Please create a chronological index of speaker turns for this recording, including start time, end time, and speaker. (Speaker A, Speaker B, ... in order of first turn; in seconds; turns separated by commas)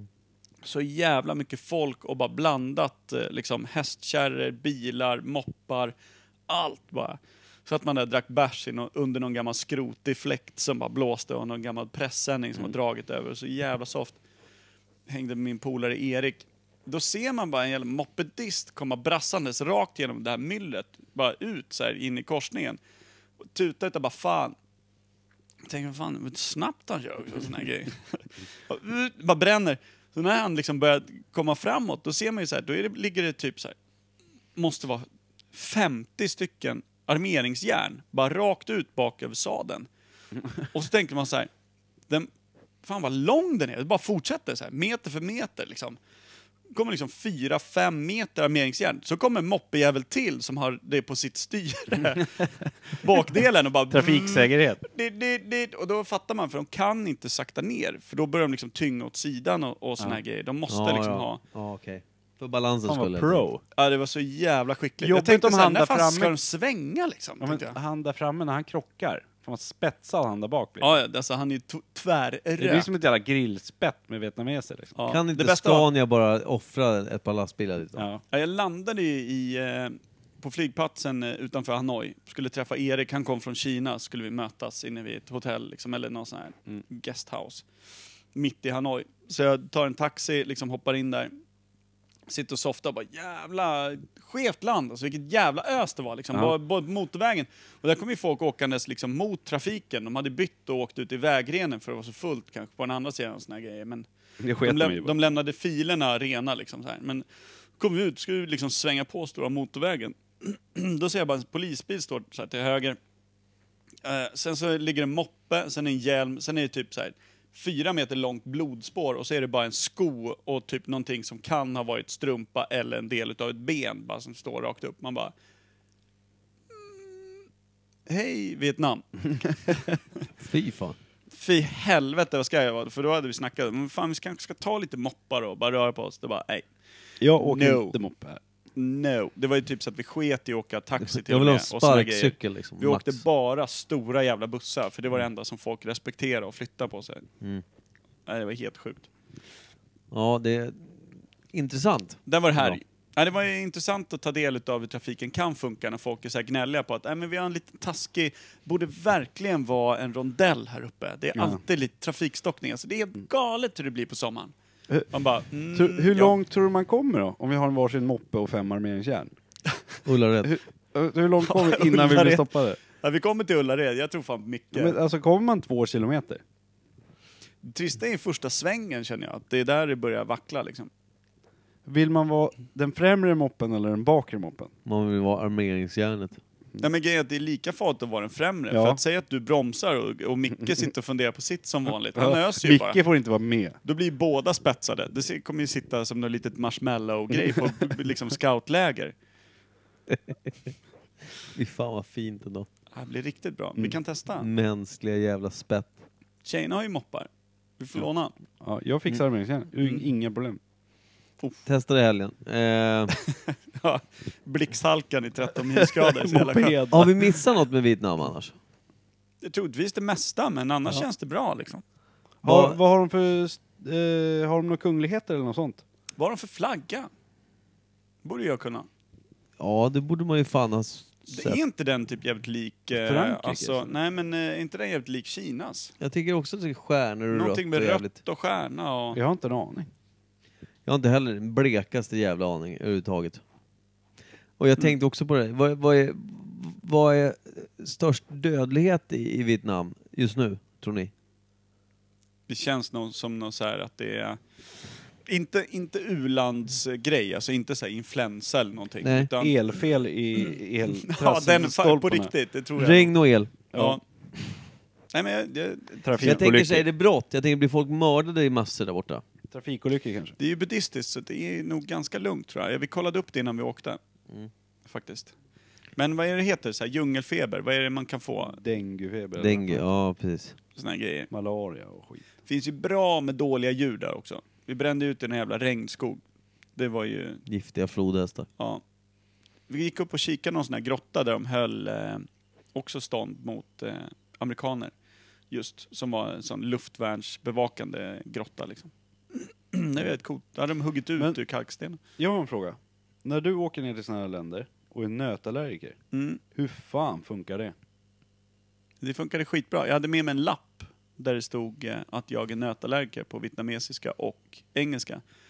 Speaker A: 0.6-5.9, Speaker A: 6.5-14.2, Speaker A: 15.1-22.8, Speaker A: 23.5-24.6, Speaker A: 25.7-33.8, Speaker A: 34.5-39.9, Speaker A: 40.6-41.5, Speaker A: 42.8-46.0, Speaker A: 46.7-52.4, Speaker A: 52.9-61.4, Speaker B: 53.9-54.8, Speaker C: 60.7-63.5, Speaker B: 62.9-63.6, Speaker A: 63.7-67.8, Speaker B: 65.0-66.3, Speaker B: 67.4-70.9, Speaker A: 70.8-72.9, Speaker B: 72.6-74.9, Speaker A: 75.0-75.9, Speaker C: 75.1-78.1, Speaker B: 78.0-78.2, Speaker A: 78.3-87.7, Speaker A: 88.3-91.3, Speaker A: 92.3-104.0, Speaker B: 104.4-105.1, Speaker A: 104.6-107.2, Speaker A: 107.8-113.0, Speaker A: 114.0-125.3, Speaker A: 126.7-127.3, Speaker A: 128.1-129.8, Speaker C: 130.4-130.9, Speaker A: 131.3-136.7, Speaker B: 137.2-138.4, Speaker A: 137.4-138.0, Speaker A: 138.8-147.3, Speaker C: 141.0-143.2, Speaker A: 148.3-149.1, Speaker C: 150.1-151.0, Speaker C: 151.5-152.8, Speaker A: 152.3-164.5, Speaker B: 161.3-161.6, Speaker A: 165.1-166.3, Speaker B: 165.7-169.3, Speaker C: 170.1-170.6, Speaker B: 170.4-172.8, Speaker A: 171.5-175.0, Speaker B: 174.7-176.4, Speaker A: 177.6-180.9, Speaker B: 181.9-184.7, Speaker C: 184.9-186.4, Speaker A: 186.8-193.0, Speaker B: 188.7-189.0, Speaker B: 192.1-193.8, Speaker A: 193.8-199.1, Speaker C: 200.1-200.5, Speaker C: 201.5-202.7, Speaker A: 202.9-204.5, Speaker C: 204.4-206.0, Speaker A: 206.4-208.3, Speaker B: 208.6-210.6, Speaker C: 211.7-213.1, Speaker A: 213.7-216.8, Speaker B: 216.2-217.3, Speaker C: 216.9-218.5, Speaker A: 219.4-221.8, Speaker B: 222.4-225.8, Speaker C: 222.4-222.8, Speaker A: 226.2-227.1, Speaker A: 228.2-228.9, Speaker C: 229.6-231.6, Speaker A: 231.3-235.9, Speaker B: 232.9-233.9, Speaker C: 236.0-238.2, Speaker A: 237.3-239.2, Speaker B: 239.1-239.9, Speaker C: 240.9-243.4, Speaker C: 244.6-251.1, Speaker A: 252.5-254.4, Speaker A: 255.2-259.6, Speaker C: 259.0-259.3, Speaker B: 259.4-262.3, Speaker A: 261.1-263.1, Speaker C: 262.8-263.5, Speaker B: 263.7-264.0, Speaker A: 263.7-264.0, Speaker A: 265.1-266.4, Speaker B: 266.0-266.9, Speaker C: 266.2-269.2, Speaker B: 269.5-270.4, Speaker A: 270.4-274.0, Speaker A: 274.9-275.3, Speaker A: 275.9-278.6, Speaker B: 278.6-279.8, Speaker C: 279.4-280.6, Speaker A: 280.8-281.3, Speaker B: 281.3-282.2, Speaker A: 282.4-286.2, Speaker A: 286.8-287.4, Speaker C: 287.5-288.5, Speaker A: 288.6-288.8, Speaker A: 289.7-294.9, Speaker A: 295.5-302.0, Speaker B: 302.1-306.0, Speaker A: 306.1-306.4, Speaker B: 306.5-307.7, Speaker A: 309.0-315.2